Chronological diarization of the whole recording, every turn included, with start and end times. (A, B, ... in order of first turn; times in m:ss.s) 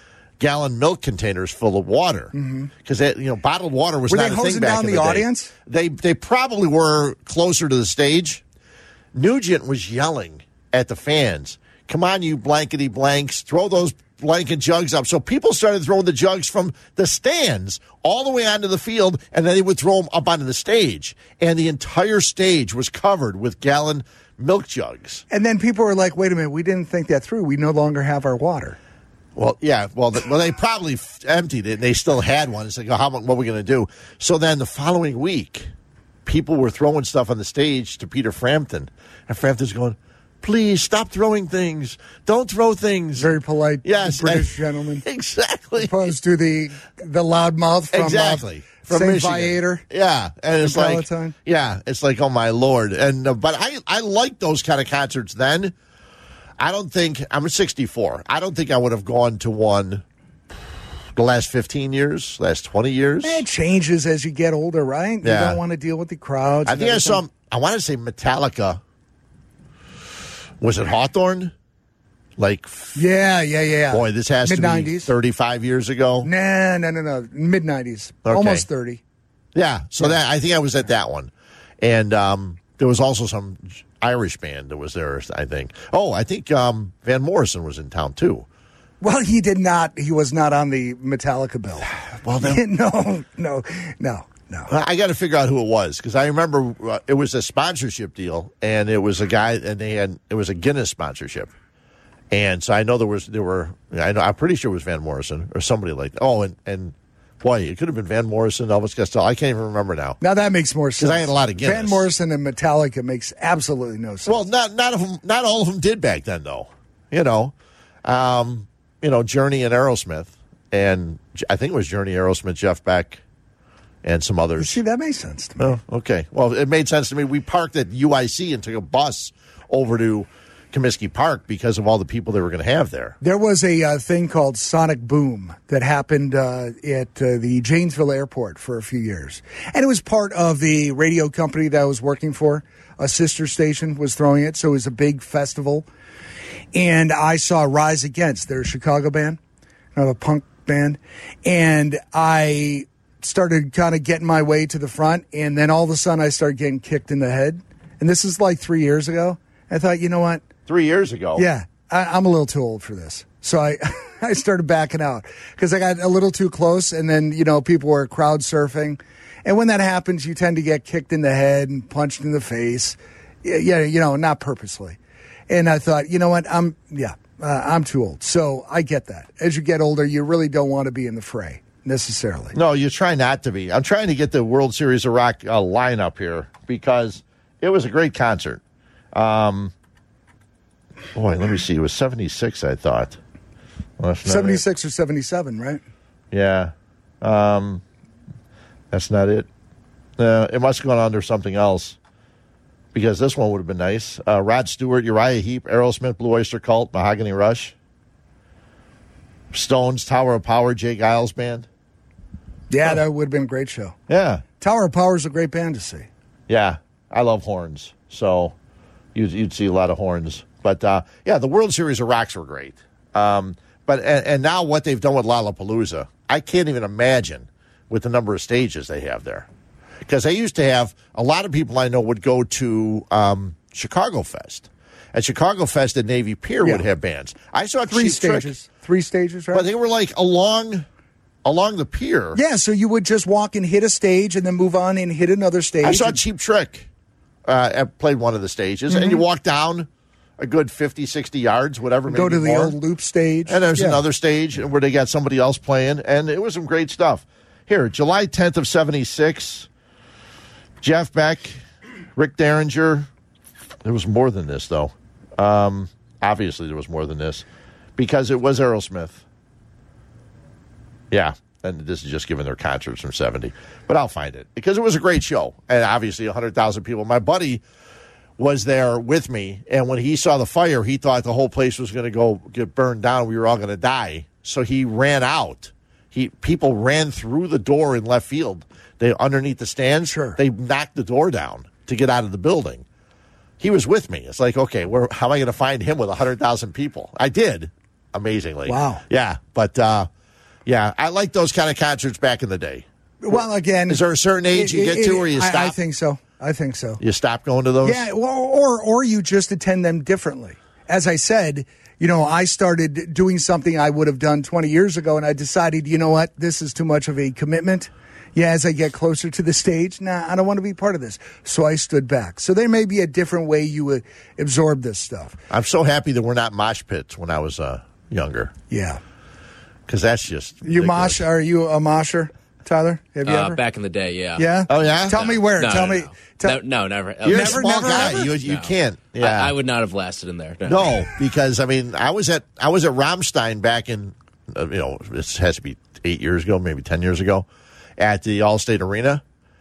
0:00.4-0:02.3 A
0:02.3-0:02.7 B
0:02.8-0:08.4 A
0:04.1-0:05.5 B
0:09.1-0:25.2 A
0:25.3-0:28.8 B
0:29.4-0:35.7 A
0:36.2-0:43.3 A
0:43.2-0:45.0 B
0:43.8-0:46.1 A
0:45.8-0:49.8 B
0:47.9-0:55.7 A
0:50.6-0:51.3 B
0:56.6-1:00.0 A
1:01.1-1:03.4 A
1:03.2-1:07.2 B
1:05.2-1:05.6 A
1:06.6-1:08.8 A
1:10.6-1:11.5 A
1:12.4-1:13.0 A
1:12.9-1:15.1 B
1:13.9-1:16.3 A
1:16.2-1:19.0 B
1:18.2-1:18.6 A
1:19.5-1:28.4 A
1:29.0-1:31.9 B
1:31.8-1:32.6 A
1:32.4-1:34.7 B
1:34.7-1:41.5 A
1:42.3-1:50.2 A
1:50.2-1:54.3 B
1:51.0-1:52.1 A
1:54.2-1:57.5 A
1:58.0-2:03.2 A
2:04.0-2:04.8 A
2:04.6-2:05.8 B
2:05.6-2:13.2 A
2:13.2-2:25.8 B
2:26.7-2:29.4 B
2:29.9-2:40.5 B
2:40.7-2:41.4 A
2:41.3-2:55.0 B
2:55.5-3:02.5 B
3:02.5-3:08.6 A
3:09.1-3:09.7 A
3:11.1-3:13.2 A
3:14.0-3:14.6 A
3:14.2-3:15.8 B
3:16.3-3:17.8 A
3:18.9-3:19.5 A
3:20.2-3:22.0 A
3:22.9-3:27.7 A
3:29.5-3:31.7 A
3:32.7-3:34.0 B
3:34.1-3:34.4 A
3:34.6-3:36.1 B
3:36.5-3:38.5 A
3:39.1-3:49.5 A
3:50.0-3:58.5 A
3:57.9-3:59.7 B
3:59.5-4:00.8 A
4:01.4-4:02.4 A
4:02.3-4:06.2 B
4:05.8-4:06.9 A
4:07.4-4:09.9 A
4:08.9-4:09.2 B
4:10.4-4:12.8 A
4:12.1-4:14.0 B
4:13.5-4:19.7 A
4:20.8-4:21.6 A
4:22.2-4:23.1 A
4:23.8-4:27.4 A
4:28.0-4:29.2 A
4:31.1-4:37.6 A
4:38.4-4:52.8 A
4:50.0-4:50.4 B
4:53.6-5:00.1 A
4:58.6-4:59.0 B
5:00.6-5:05.8 A
5:03.2-5:07.0 B
5:07.0-5:08.1 A
5:07.8-5:25.4 B
5:25.5-5:28.5 A
5:28.7-5:29.0 B
5:29.9-5:31.2 A
5:30.6-5:33.6 B
5:33.2-5:41.0 C
5:34.4-5:36.6 B
5:34.7-5:35.3 A
5:37.2-5:39.5 A
5:37.2-5:38.3 B
5:40.6-5:47.5 A
5:48.0-5:49.2 A